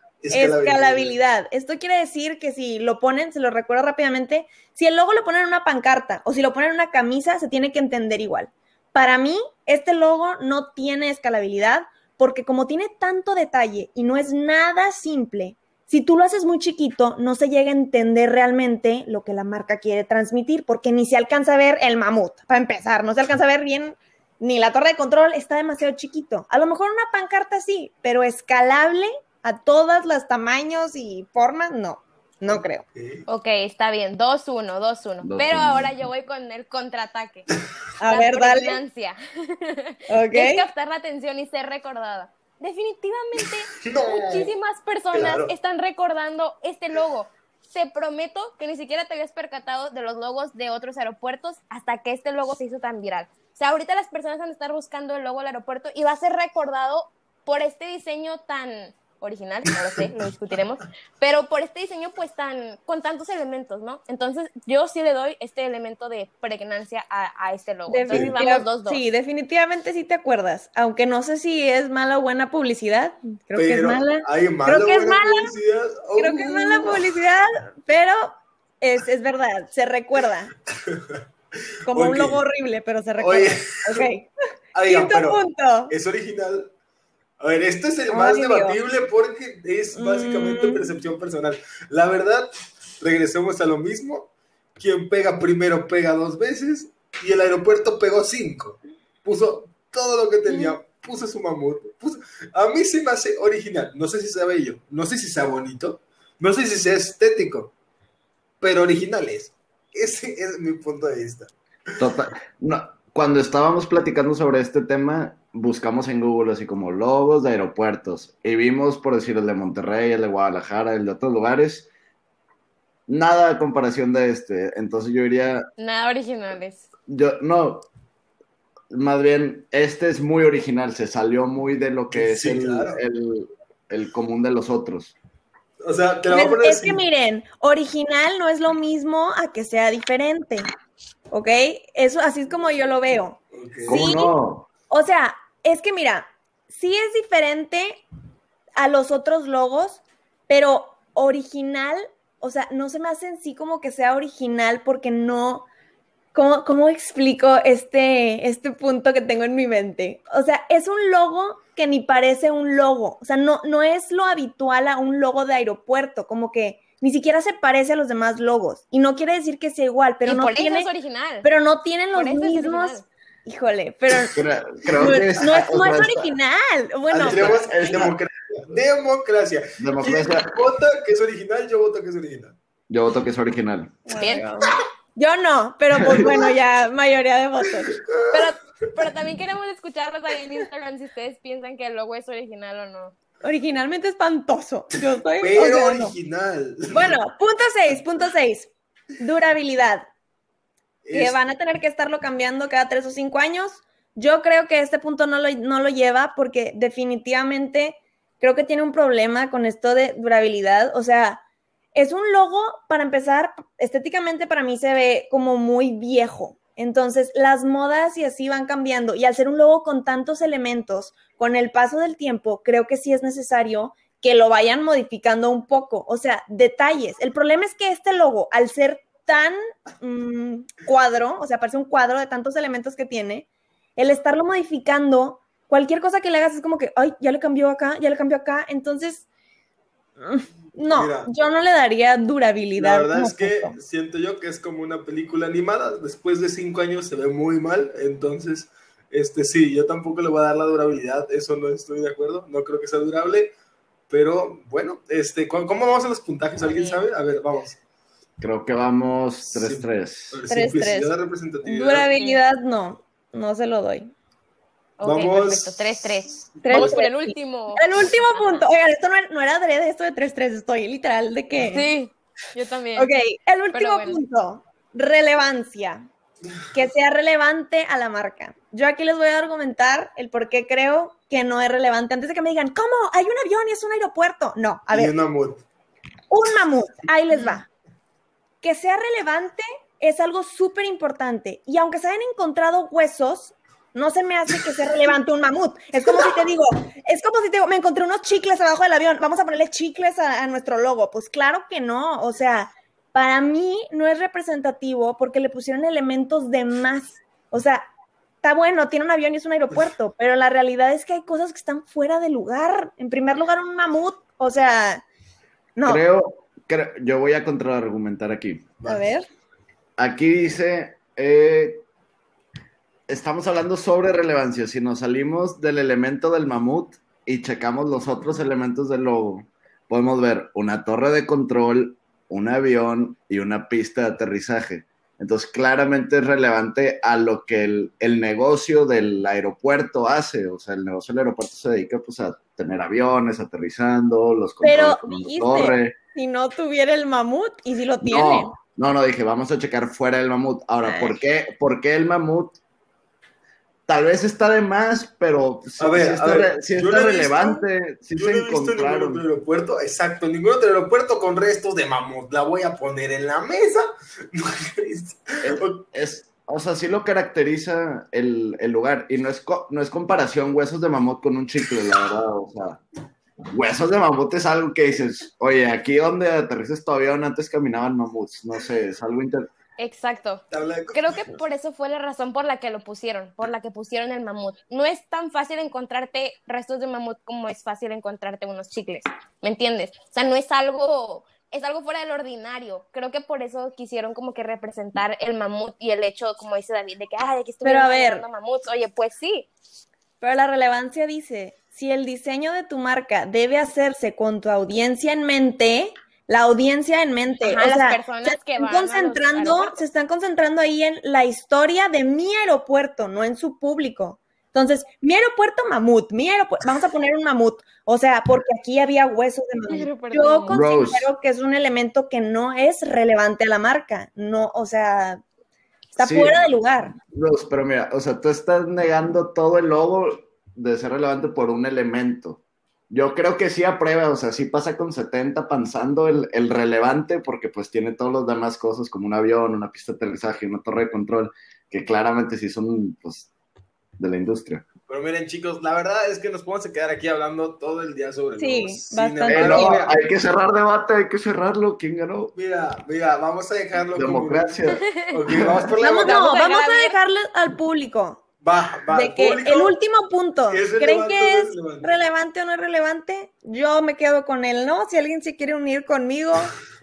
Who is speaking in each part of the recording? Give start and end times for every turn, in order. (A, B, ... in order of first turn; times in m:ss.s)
0:00.2-0:01.2 A
0:00.3-0:32.8 B
0:32.5-0:33.2 A
0:33.3-1:09.0 C
0:35.2-0:35.9 D
0:38.0-0:38.8 B
0:40.1-0:40.6 B
0:43.8-0:44.5 A
0:45.1-0:45.5 A
1:07.9-1:15.5 B
1:08.1-1:08.4 A
1:13.6-1:17.0 A
1:16.2-1:20.5 B
1:20.8-1:21.2 A
1:21.9-1:24.3 B
1:21.9-1:22.4 A
1:23.2-1:24.0 A
1:24.7-1:26.7 A
1:24.8-1:25.9 B
1:27.4-1:47.7 A
1:28.1-1:28.8 B
1:29.9-1:30.9 B
1:40.5-1:40.8 B
1:48.6-1:51.5 A
1:52.0-2:01.9 D
2:03.1-2:05.6 D
2:05.8-2:06.9 C
2:07.1-2:07.9 D
2:08.9-2:15.1 D
2:12.1-2:13.0 A
2:15.8-2:17.0 A
2:16.3-2:20.6 B
2:21.3-2:24.3 B
2:23.5-2:24.1 A
2:23.8-2:24.7 D
2:24.9-2:28.0 B
2:28.8-2:35.7 B
2:36.3-2:50.9 B
2:50.2-2:51.5 C
2:51.4-2:54.4 B
2:52.1-2:53.0 C
2:54.3-2:56.3 D
2:55.0-2:58.1 B
2:57.1-3:02.6 A
2:57.1-2:58.1 D
2:59.8-3:00.5 D
3:02.9-3:03.9 D
3:04.1-3:08.0 B
3:04.2-3:04.5 C
3:06.0-3:06.4 D
3:08.3-3:13.1 C
3:13.4-3:16.1 B
3:15.4-3:17.2 A
3:16.9-3:20.0 B
3:21.0-3:21.4 A
3:21.1-3:31.4 B
3:31.9-3:59.3 B
4:00.2-4:03.8 B
4:00.9-4:01.3 A
4:02.8-4:13.5 A
4:14.1-4:17.8 A
4:16.6-4:17.1 C
4:18.4-4:20.4 D
4:19.4-4:22.1 A
4:20.5-4:21.1 B
4:21.6-4:24.1 B
4:22.2-4:22.4 C
4:25.0-4:28.6 C
4:25.0-4:27.0 A
4:26.6-4:31.9 B
4:31.6-4:33.1 C
4:33.0-4:36.0 B
4:33.7-4:34.2 C
4:36.7-4:45.1 B
4:44.9-4:45.6 A
4:46.3-4:47.7 B
4:48.6-5:07.8 B
5:08.4-5:15.0 B
5:15.8-5:16.0 B
5:15.8-5:18.8 D
5:18.8-5:19.2 B
5:20.0-5:21.8 D
5:23.1-5:46.0 D
5:44.6-5:48.5 B
5:48.0-5:52.6 D
5:50.8-5:51.2 B
5:53.9-5:59.2 D
5:55.8-6:05.8 A
6:05.4-6:12.8 D
6:13.5-6:19.4 D
6:19.8-6:39.5 C
6:20.5-6:21.3 A
6:37.6-6:38.2 B
6:40.2-7:05.2 B
6:47.4-6:49.8 C
6:59.7-7:00.6 C
7:00.5-7:01.1 D
7:05.9-7:06.9 B
7:06.0-7:06.4 D
7:07.0-7:23.3 D
7:24.0-7:24.6 D
7:24.9-7:30.0 A
7:28.4-7:29.9 B
7:29.3-7:32.3 D
7:32.3-7:36.4 A
7:34.0-7:35.6 D
7:34.8-7:35.1 C
7:35.8-7:38.2 B
7:36.0-7:36.9 C
7:38.4-7:39.8 A
7:38.9-7:46.5 B
7:40.5-7:42.0 A